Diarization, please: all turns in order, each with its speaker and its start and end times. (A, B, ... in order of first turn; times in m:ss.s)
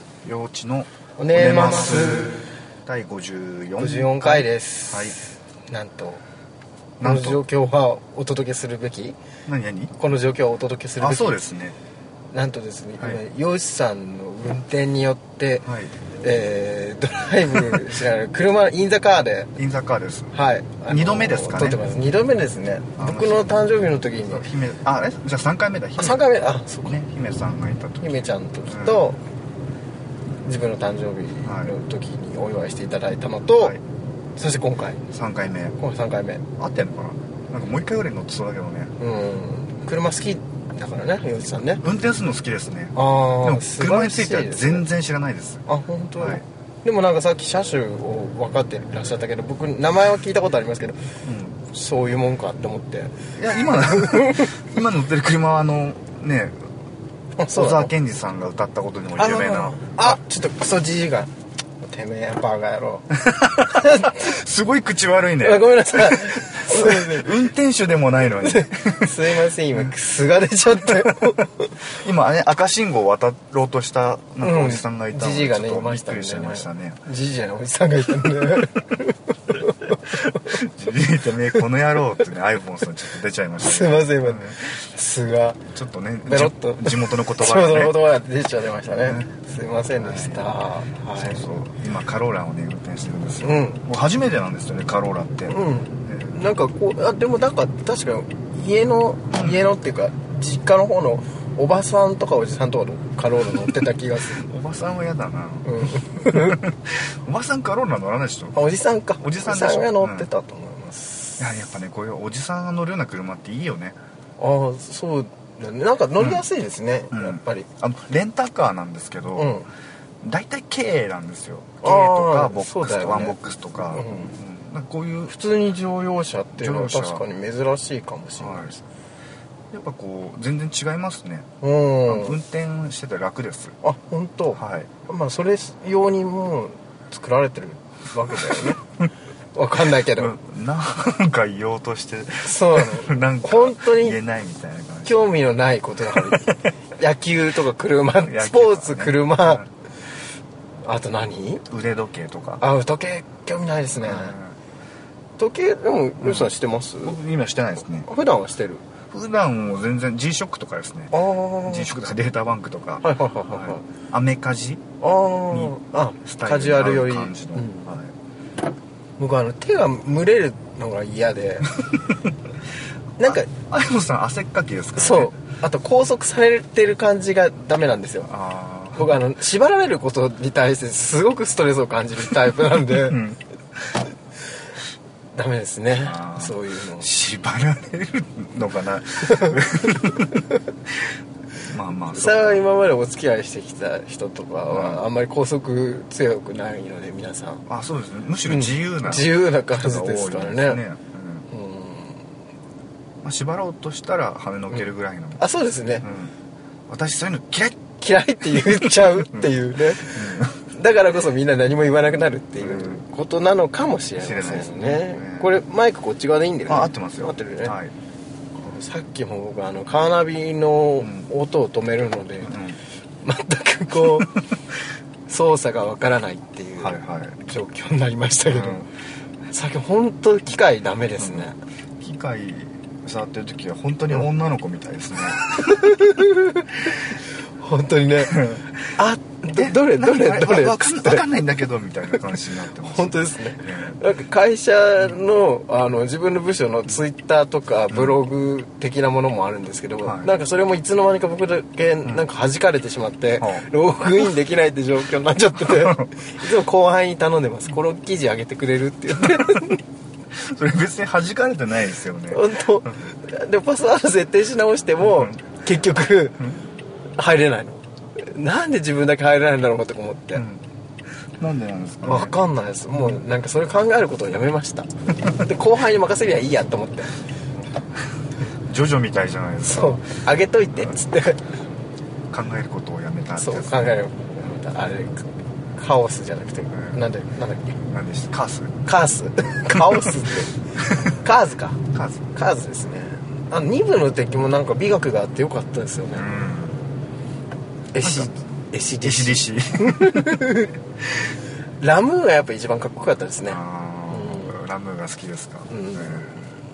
0:00.2-0:05.2 A
0:01.2-0:02.4 B
0:03.8-0:06.2 B
0:07.0-0:07.4 A
0:07.0-0:09.2 B
0:09.4-0:09.9 A
0:10.0-0:11.4 B
0:11.0-0:11.8 A
0:12.3-0:15.7 B
0:15.6-0:15.9 A
0:16.2-0:19.5 B
0:19.6-0:20.3 A
0:20.3-0:24.4 B
0:20.9-0:21.8 A
0:23.0-0:23.6 A
0:24.2-0:26.3 A
0:26.0-0:27.0 B
0:26.8-0:29.1 A
0:28.0-0:29.2 B
0:30.4-0:33.7 B
0:31.4-0:31.7 A
0:34.4-0:35.0 B
0:35.1-0:35.8 A
0:35.8-0:36.5 B
0:36.6-0:38.9 A
0:39.0-0:41.8 B
0:41.8-0:46.4 A
0:42.9-0:44.9 B
0:45.7-0:51.0 B
0:51.2-0:51.6 A
0:51.7-0:53.1 B
0:53.4-0:56.5 A
0:53.7-0:54.5 B
0:57.4-0:57.9 B
0:57.5-1:00.2 A
0:59.2-1:03.1 B
1:03.2-1:09.9 A
1:03.7-1:04.2 B
1:05.4-1:07.3 B
1:08.4-1:11.7 B
1:10.9-1:11.3 A
1:11.9-1:17.0 A
1:14.4-1:20.6 B
1:20.4-1:24.6 A
1:23.6-1:25.6 B
1:25.7-1:28.0 A
1:26.3-1:31.5 B
1:29.9-1:30.5 A
1:31.1-1:36.4 A
1:33.4-1:33.8 B
1:35.5-1:44.4 B
1:44.3-1:48.6 A
1:45.6-1:46.6 B
1:48.5-1:51.4 B
1:49.2-1:50.3 A
1:51.4-1:54.0 A
1:54.4-1:57.7 B
1:57.1-1:59.6 A
1:59.4-1:59.7 B
2:00.2-2:05.3 A
2:01.8-2:04.3 B
2:05.3-2:08.8 B
2:06.6-2:07.2 A
2:08.4-2:08.7 A
2:09.7-2:11.5 A
2:11.6-2:12.4 B
2:12.1-2:13.7 A
2:13.8-2:18.8 B
2:14.5-2:14.9 A
2:19.5-2:20.3 B
2:20.0-2:25.3 A
2:22.4-2:24.2 B
2:25.0-2:29.6 B
2:26.1-2:26.6 A
2:28.2-2:29.7 A
2:30.8-2:31.6 B
2:31.7-2:32.6 A
2:32.6-2:34.4 B
2:34.0-2:34.5 A
2:35.4-2:37.2 B
2:36.2-2:38.1 A
2:38.1-2:38.8 B
2:39.1-2:44.8 A
2:41.1-2:42.0 B
2:43.0-2:43.8 B
2:45.0-2:47.9 B
2:46.2-2:48.1 A
2:49.2-2:51.7 B
2:53.2-2:53.5 B
2:53.2-2:55.3 A
2:55.0-2:58.3 B
2:58.2-2:59.1 A
2:58.9-3:03.2 B
3:03.0-3:03.4 A
3:05.3-3:07.1 B
3:06.0-3:10.4 A
3:11.6-3:12.7 A
3:12.1-3:17.6 B
3:14.7-3:15.0 A
3:17.7-3:21.4 A
3:18.5-3:20.8 B
3:21.5-3:22.2 B
3:23.2-3:25.4 A
3:25.4-3:26.0 B
3:26.0-3:26.3 A
3:26.9-3:27.8 A
3:28.0-3:37.7 B
3:28.5-3:30.6 A
3:32.6-3:33.0 A
3:34.2-3:35.5 A
3:36.7-3:37.9 A
3:38.6-3:42.6 B
3:41.0-3:41.3 A
3:42.4-3:42.8 A
3:43.2-3:44.4 B
3:45.3-3:48.8 B
3:46.8-3:47.4 A
3:48.5-3:48.9 A
3:49.5-3:51.6 B
3:51.2-3:51.5 A
3:52.0-3:55.8 A
3:55.7-3:56.9 B
3:57.6-4:01.2 B
3:58.3-3:58.6 A
3:59.5-4:04.0 A
4:02.9-4:19.8 B
4:10.0-4:10.3 A
4:13.4-4:13.6 A
4:15.6-4:16.1 A
4:19.3-4:19.6 A
4:20.3-4:22.5 A
4:22.3-4:26.4 B
4:25.0-4:25.3 A
4:27.2-4:30.4 B
4:30.4-4:30.6 A
4:31.4-4:32.4 A
4:32.0-4:37.1 B
4:38.7-4:40.0 A
4:39.6-4:41.4 B
4:42.3-4:43.9 A
4:43.4-4:47.8 B
4:46.7-4:47.0 A
4:47.8-4:48.8 A
4:48.8-4:50.5 B
4:51.1-4:51.8 B
4:51.9-4:52.3 A
4:52.3-4:56.3 B
4:56.1-4:56.8 A
4:57.9-5:00.7 B
4:58.0-4:58.3 A
4:59.0-5:00.5 A
5:01.8-5:04.5 B
5:03.5-5:06.2 A
5:05.7-5:06.5 B